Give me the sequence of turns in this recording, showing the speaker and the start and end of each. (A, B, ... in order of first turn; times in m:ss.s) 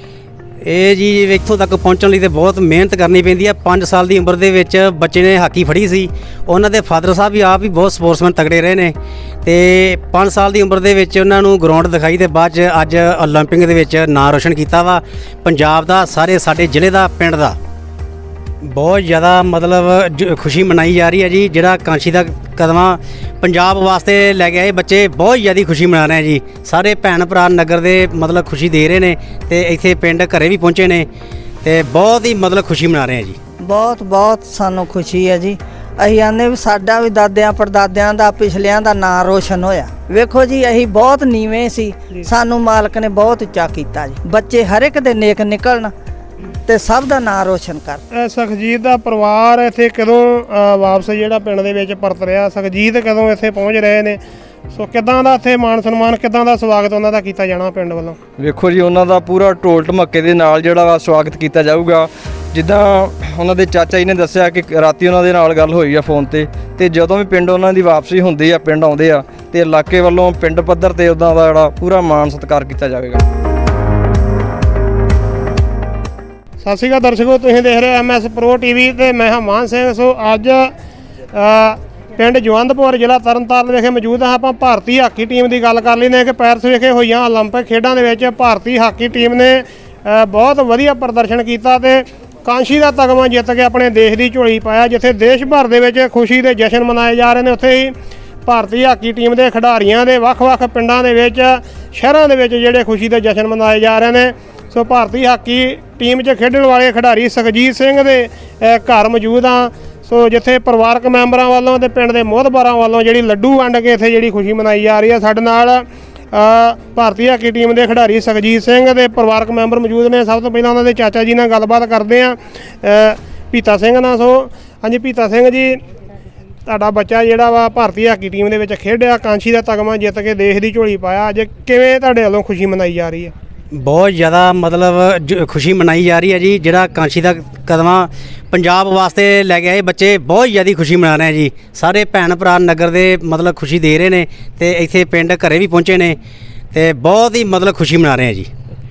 0:00.6-0:17.6 A
0:18.6-0:31.1 A
0:31.6-0:33.4 A
0:33.6-0:45.9 B
0:46.6-0:48.0 B
0:48.1-0:58.2 C
0:58.4-1:13.2 D
1:16.6-1:20.7 C
1:21.3-2:05.8 C
2:06.6-2:13.3 C
2:13.7-2:26.2 A
2:26.7-2:28.5 A